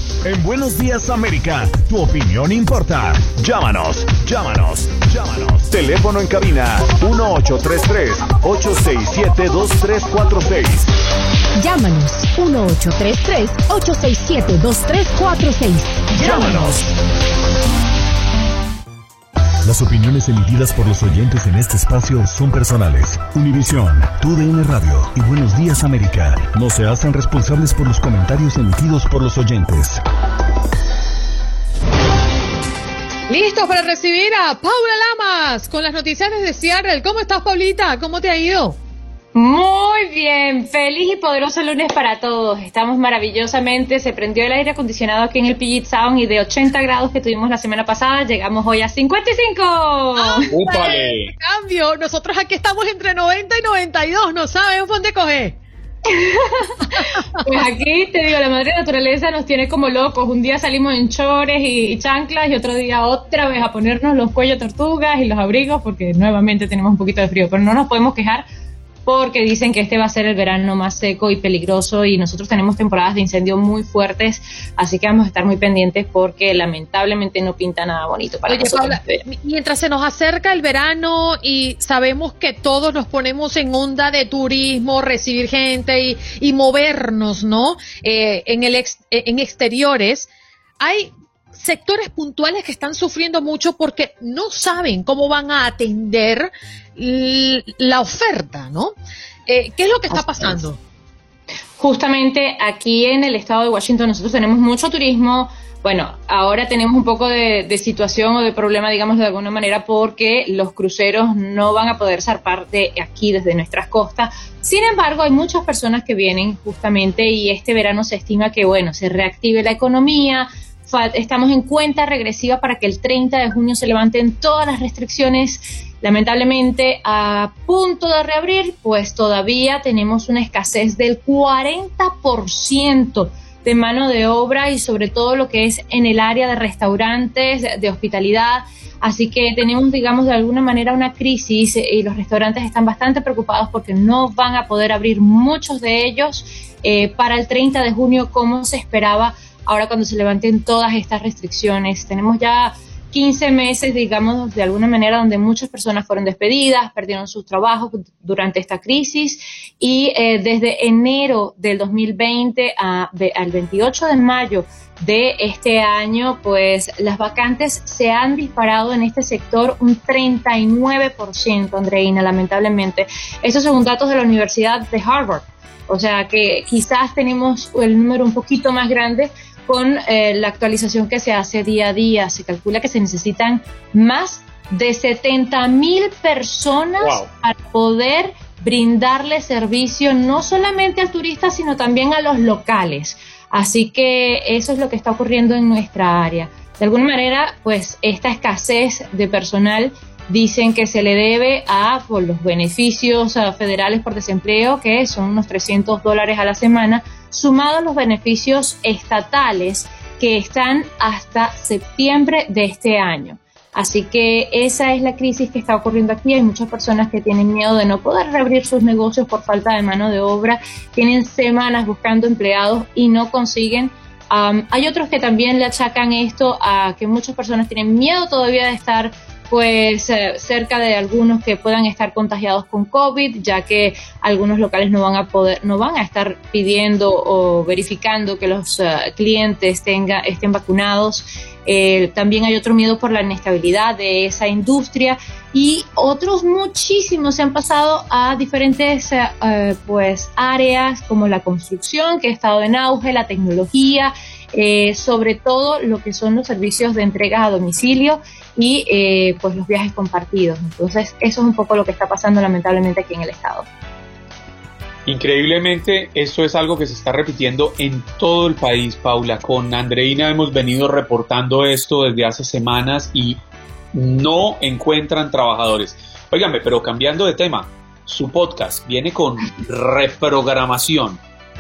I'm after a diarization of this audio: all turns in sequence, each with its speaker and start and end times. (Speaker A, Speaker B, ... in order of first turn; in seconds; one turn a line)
Speaker A: 0.2-10.9
Speaker B: 11.6-16.8
Speaker A: 16.2-16.9
Speaker A: 19.6-30.0
Speaker C: 33.3-38.8
Speaker D: 39.3-50.5
Speaker C: 50.2-55.6
Speaker E: 50.5-51.3
Speaker D: 56.1-56.9
Speaker D: 57.4-68.5
Speaker D: 69.1-79.2
Speaker C: 78.5-90.3
Speaker C: 90.8-99.0
Speaker C: 99.5-100.8
Speaker D: 101.8-263.7
Speaker E: 187.0-187.3
Speaker E: 265.1-273.4
Speaker E: 273.9-281.2